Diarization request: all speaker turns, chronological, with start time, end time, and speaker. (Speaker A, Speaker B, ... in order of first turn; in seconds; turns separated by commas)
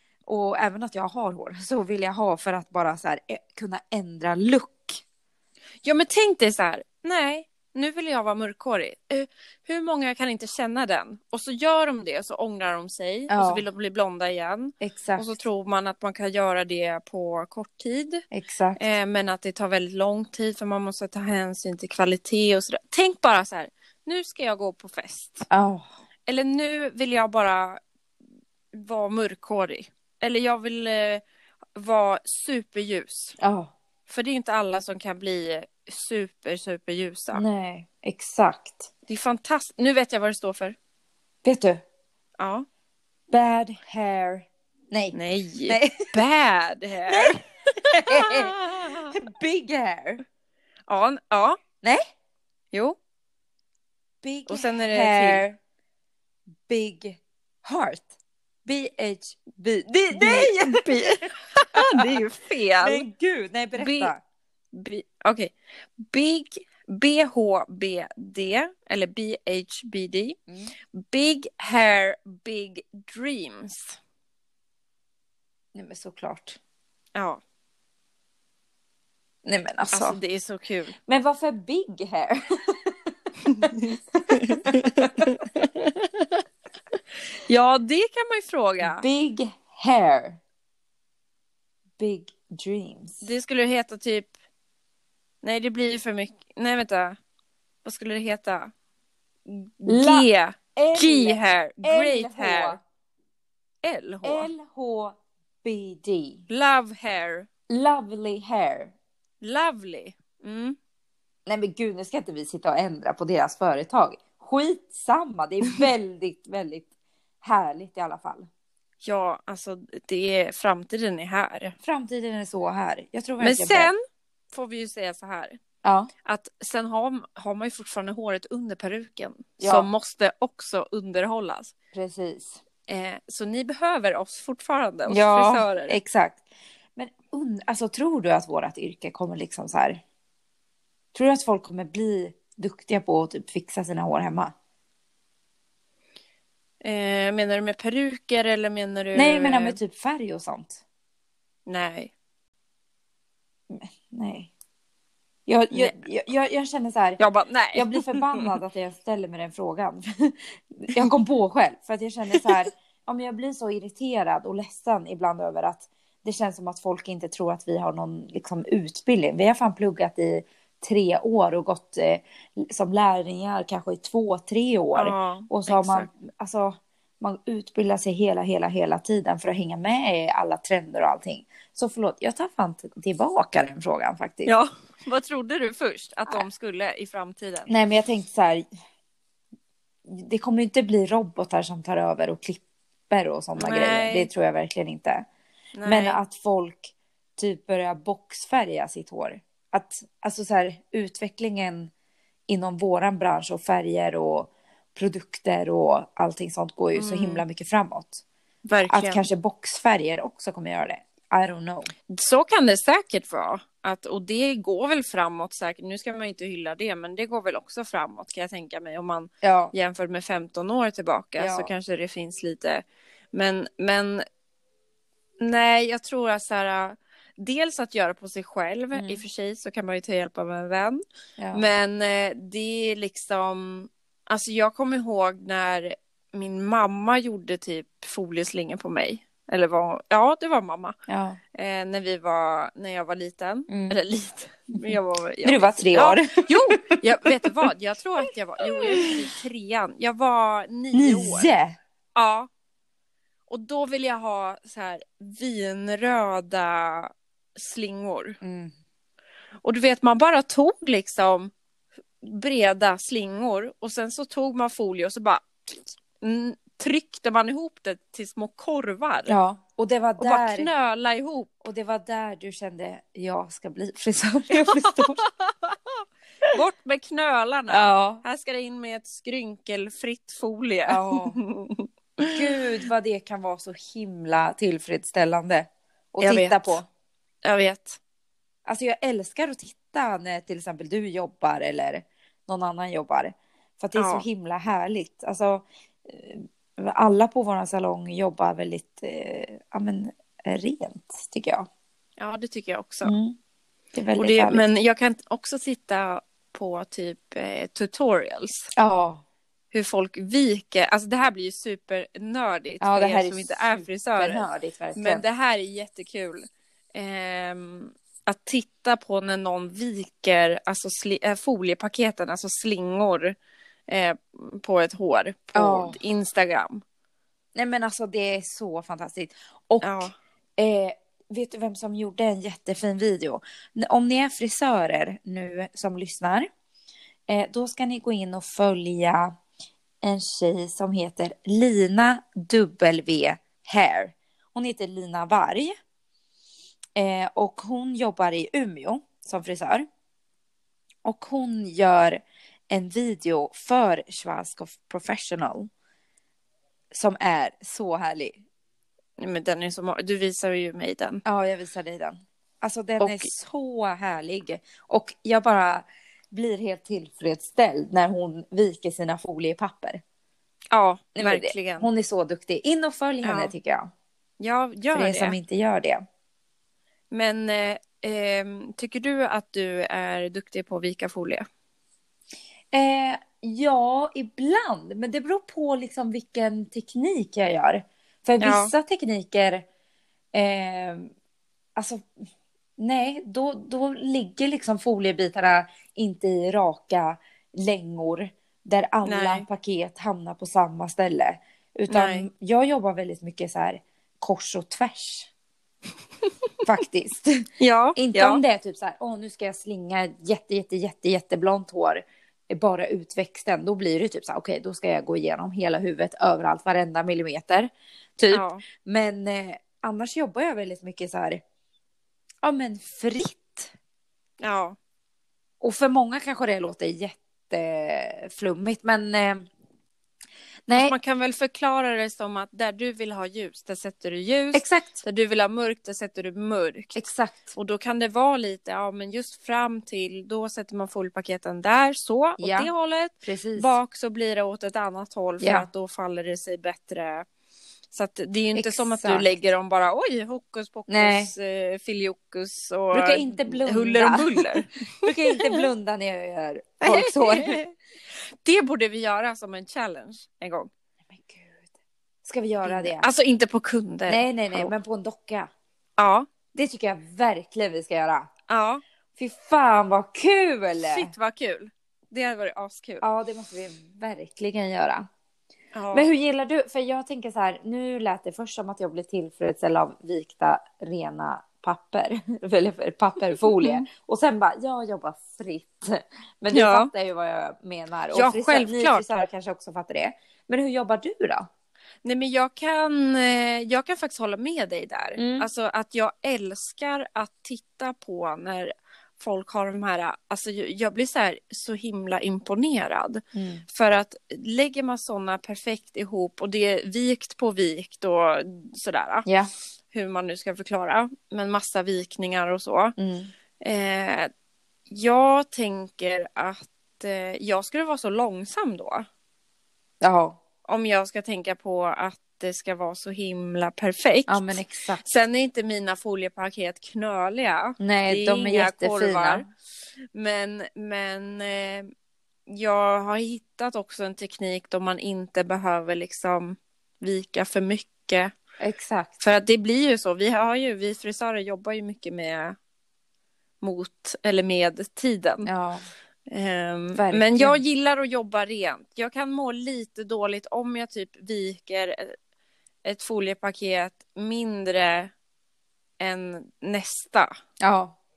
Speaker A: 0.3-5.0, Speaker B: 5.8-18.2, Speaker A: 13.3-13.7, Speaker A: 14.8-15.4, Speaker A: 18.3-18.9, Speaker B: 18.8-25.5, Speaker A: 25.5-25.9, Speaker B: 26.3-27.8, Speaker B: 28.7-31.2, Speaker B: 31.8-33.4, Speaker A: 33.4-33.7, Speaker B: 34.1-37.4, Speaker A: 37.3-38.9, Speaker B: 39.1-40.8, Speaker A: 41.4-41.8, Speaker B: 42.4-42.7, Speaker A: 43.3-46.2, Speaker B: 45.1-49.1, Speaker A: 47.1-50.2, Speaker B: 50.9-51.6, Speaker B: 52.7-53.0, Speaker A: 54.2-55.6, Speaker B: 54.5-55.4, Speaker A: 56.7-58.1, Speaker A: 58.6-61.0, Speaker B: 60.1-63.1, Speaker A: 61.8-62.1, Speaker A: 62.8-64.2, Speaker B: 63.8-64.1, Speaker B: 64.7-70.4, Speaker B: 70.9-74.0, Speaker A: 75.8-76.6, Speaker B: 77.2-77.4, Speaker A: 79.5-80.2, Speaker B: 79.9-81.0, Speaker A: 81.1-82.9, Speaker B: 83.5-86.4, Speaker A: 84.2-85.3, Speaker B: 87.5-89.0, Speaker A: 88.8-90.4, Speaker A: 92.0-93.2, Speaker B: 93.2-94.3, Speaker B: 95.4-97.2, Speaker B: 97.8-98.7, Speaker B: 99.5-102.8, Speaker A: 99.9-102.8, Speaker B: 103.8-104.5, Speaker A: 104.2-106.4, Speaker B: 106.5-107.5, Speaker A: 107.7-108.9, Speaker B: 109.4-110.8, Speaker A: 111.5-116.9, Speaker A: 117.4-118.5, Speaker B: 119.0-121.8, Speaker A: 121.8-123.9, Speaker B: 123.4-124.0, Speaker B: 124.5-125.6, Speaker A: 125.8-126.1, Speaker B: 126.2-131.7, Speaker A: 129.6-129.9, Speaker A: 131.9-132.6, Speaker B: 132.9-136.0, Speaker A: 135.1-136.4, Speaker A: 137.0-140.0, Speaker A: 141.1-144.5, Speaker B: 146.8-149.8, Speaker A: 149.1-150.8, Speaker B: 151.7-152.1, Speaker A: 153.7-154.5, Speaker A: 155.5-157.2, Speaker B: 157.2-158.5, Speaker A: 157.7-184.5, Speaker B: 174.9-176.1, Speaker B: 184.4-187.7, Speaker A: 187.7-188.7, Speaker A: 190.1-195.3, Speaker B: 193.6-194.3, Speaker B: 195.8-196.2, Speaker A: 195.8-201.9, Speaker A: 202.5-208.2, Speaker B: 207.0-207.4, Speaker B: 208.7-209.2, Speaker A: 208.9-211.9, Speaker B: 212.1-224.2, Speaker A: 219.4-219.7, Speaker A: 221.4-221.7, Speaker B: 225.4-231.0, Speaker A: 228.9-229.2, Speaker A: 231.4-231.6, Speaker B: 231.5-241.0, Speaker A: 241.1-241.4, Speaker B: 241.5-251.5, Speaker A: 243.7-244.0, Speaker A: 245.4-247.5, Speaker A: 248.8-249.2, Speaker A: 250.9-251.8, Speaker B: 252.2-252.5, Speaker B: 253.5-258.4, Speaker A: 258.4-258.7, Speaker B: 259.6-261.5, Speaker B: 262.2-269.3, Speaker A: 269.3-270.7, Speaker B: 270.2-271.5, Speaker A: 271.6-275.2, Speaker B: 274.6-276.0, Speaker B: 276.5-282.3, Speaker A: 277.7-278.2, Speaker A: 280.9-281.4, Speaker A: 282.3-286.9, Speaker B: 286.2-286.8, Speaker B: 287.4-288.0, Speaker A: 288.7-301.7, Speaker B: 294.0-294.2, Speaker B: 302.2-303.1, Speaker A: 303.0-303.4, Speaker A: 303.9-304.6, Speaker B: 304.2-308.7, Speaker A: 308.8-309.2, Speaker B: 309.7-323.4, Speaker A: 312.8-315.2, Speaker B: 323.9-326.8, Speaker A: 325.5-326.0, Speaker A: 327.6-336.5, Speaker B: 329.8-330.1, Speaker A: 337.3-339.4, Speaker A: 340.0-345.8, Speaker A: 347.0-349.9, Speaker A: 351.1-355.7, Speaker A: 356.9-358.4, Speaker B: 359.2-361.2, Speaker A: 361.2-370.0, Speaker B: 363.0-363.3, Speaker B: 370.7-371.9, Speaker A: 371.2-373.9, Speaker B: 373.2-373.5, Speaker B: 374.4-375.4, Speaker A: 374.9-376.0, Speaker B: 377.1-381.5, Speaker A: 382.7-389.7, Speaker B: 388.4-388.7, Speaker A: 390.3-391.1, Speaker A: 391.8-392.1, Speaker A: 392.8-405.3, Speaker B: 399.1-399.5, Speaker B: 401.9-402.3, Speaker A: 406.6-421.4, Speaker B: 407.6-408.4, Speaker B: 418.3-418.6, Speaker A: 422.4-423.7, Speaker B: 424.4-424.8, Speaker A: 425.6-429.5, Speaker A: 430.7-430.9, Speaker B: 430.7-437.0, Speaker A: 434.5-435.0, Speaker A: 436.9-437.6, Speaker B: 437.6-447.2, Speaker A: 442.4-442.7, Speaker A: 443.2-443.7, Speaker A: 445.4-445.7, Speaker B: 447.9-454.8, Speaker A: 448.5-449.3, Speaker A: 450.9-451.3, Speaker A: 452.9-457.6, Speaker B: 456.8-460.7, Speaker A: 461.1-461.7, Speaker A: 462.2-463.1, Speaker B: 462.6-464.7, Speaker A: 464.1-465.5, Speaker B: 466.0-466.3, Speaker A: 466.5-468.3, Speaker B: 468.5-468.8, Speaker A: 469.2-471.1, Speaker B: 470.9-473.0, Speaker A: 473.0-475.1, Speaker B: 475.7-476.1, Speaker A: 475.9-491.5, Speaker B: 483.5-483.9, Speaker B: 486.5-486.9, Speaker B: 488.1-489.1, Speaker B: 492.0-509.3, Speaker A: 495.2-495.5, Speaker A: 503.3-503.6, Speaker A: 509.3-509.5, Speaker B: 509.9-513.0, Speaker A: 513.0-513.3, Speaker B: 513.6-514.3, Speaker B: 514.9-519.1, Speaker A: 520.0-520.4, Speaker B: 520.7-529.5, Speaker A: 524.3-525.0, Speaker A: 527.8-529.4, Speaker B: 530.1-531.9, Speaker B: 532.5-538.3, Speaker A: 538.6-539.2, Speaker B: 539.2-542.6, Speaker B: 543.6-545.5, Speaker A: 545.5-545.9, Speaker B: 546.3-552.2, Speaker A: 546.9-547.6, Speaker B: 552.9-555.1, Speaker B: 556.0-557.3, Speaker A: 557.6-558.0